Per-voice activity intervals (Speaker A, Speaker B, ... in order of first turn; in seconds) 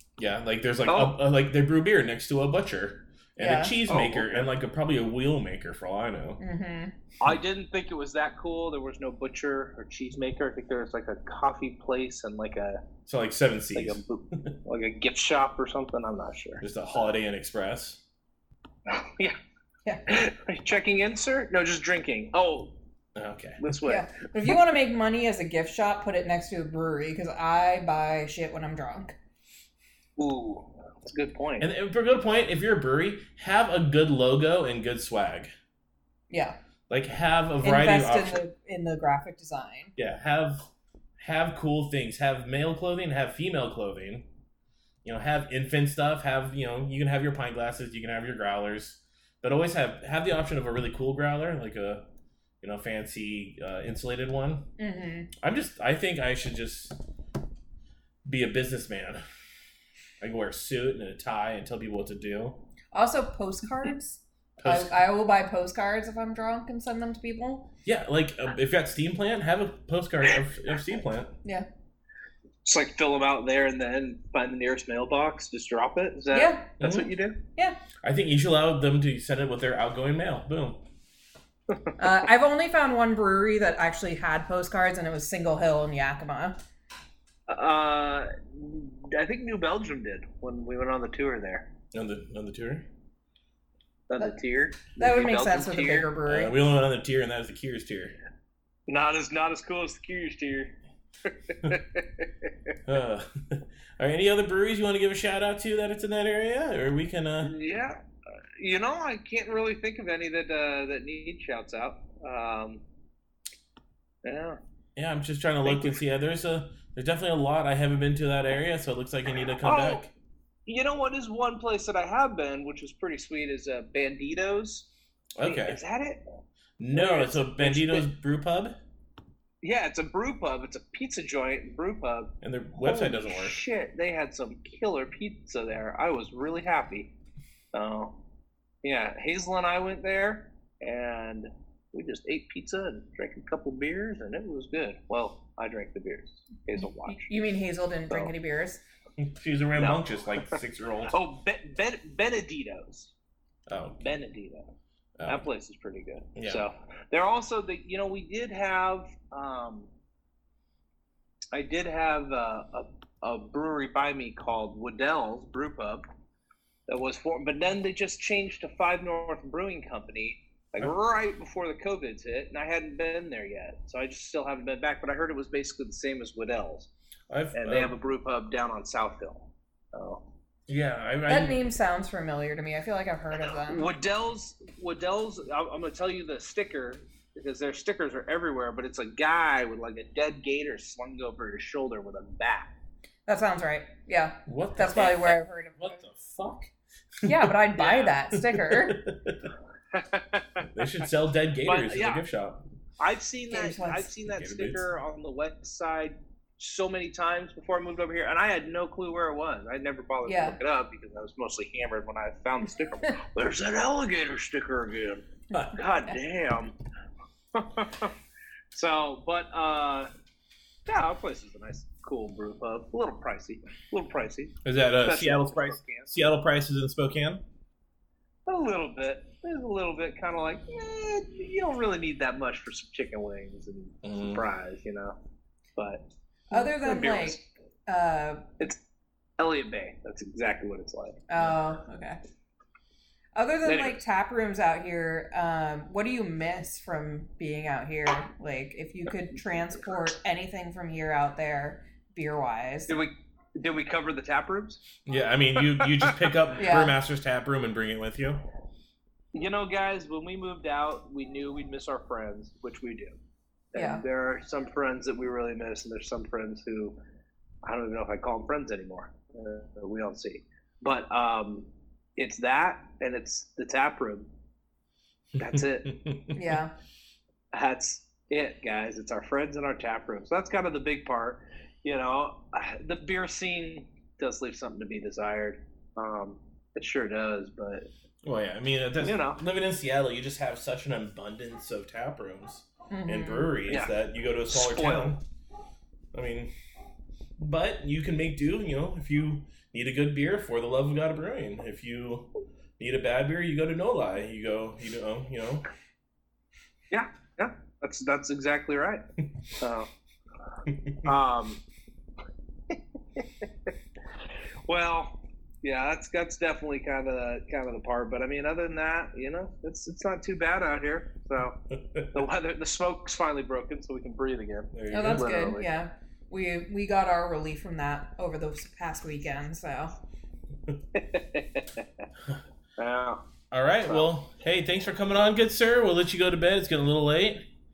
Speaker A: 0.2-6.4, 13.1-14.5, 16.6-18.0, 23.2-23.7, 31.6-35.5, 36.9-38.4, 40.0-40.7, 41.2-44.3, 45.0-52.0, 52.6-54.7, 55.4-57.0, 58.2-59.2, 60.2-62.6, 64.6-65.0, 67.8-71.3, 76.8-77.1, 78.0-80.8, 91.9-92.9, 96.3-98.1, 102.9-107.5, 115.0-120.1, 125.4-125.8, 126.8-128.8, 132.4-133.6, 149.2-151.1, 153.7-154.1, 155.2-155.5, 156.4-156.6, 177.3-177.9, 180.7-181.6, 194.5-196.7, 197.2-197.5, 198.3-199.5, 200.6-202.6, 204.3-204.9, 215.5-215.8, 224.6-227.4, 234.0-234.4, 255.1-258.4, 275.6-276.6, 288.2-295.2, 296.1-296.5, 297.4-305.7, 310.7-311.1, 321.7-322.2, 324.7-325.4, 333.5-337.5
Speaker B: 0.9-1.2, 3.9-4.5, 7.2-12.8, 13.8-16.6, 18.9-19.4, 20.1-22.7, 23.6-24.1, 30.2-31.7, 72.6-77.4, 87.5-91.7, 94.1-96.1, 98.9-100.8, 101.3-102.5, 107.4-108.0, 108.6-112.8, 114.2-114.6, 115.7-116.0, 119.6-120.0, 120.7-124.9, 125.4-126.2, 126.9-128.1, 129.6-137.1, 137.7-138.2, 138.8-147.3, 149.8-150.6, 151.1-153.1, 154.0-154.7, 155.3-159.9, 161.5-166.1, 166.9-176.9, 177.6-180.2, 183.6-192.7, 194.9-195.3, 197.8-198.2, 199.9-200.7, 201.7-202.2, 203.0-216.8, 217.5-218.1, 218.7-220.1, 220.9-226.1, 228.5-235.2, 235.8-237.4, 239.4-241.2, 243.6-244.0, 252.9-254.8, 255.6-256.1, 259.3-263.1, 263.7-267.0, 267.6-274.3, 275.4-275.9, 277.5-287.9, 289.0-289.4, 293.7-293.9, 294.5-295.2, 306.9-309.0, 309.6-309.9, 311.0-311.6, 314.7-321.6, 322.1-325.6, 330.9-332.0, 332.8-333.2
Speaker C: 3.4-3.8, 6.4-6.9, 23.9-29.2, 36.3-36.6, 37.6-39.9, 54.8-55.3, 62.9-67.7, 76.3-76.7, 82.0-86.6, 95.0-96.6, 147.1-148.8, 181.3-183.9, 193.3-196.0, 197.2-199.0, 203.5-204.1, 210.2-210.6, 236.5-238.5, 241.3-242.2, 243.3-253.0, 256.6-256.9, 263.8-264.1, 276.3-276.7, 292.9-293.6, 324.9-330.0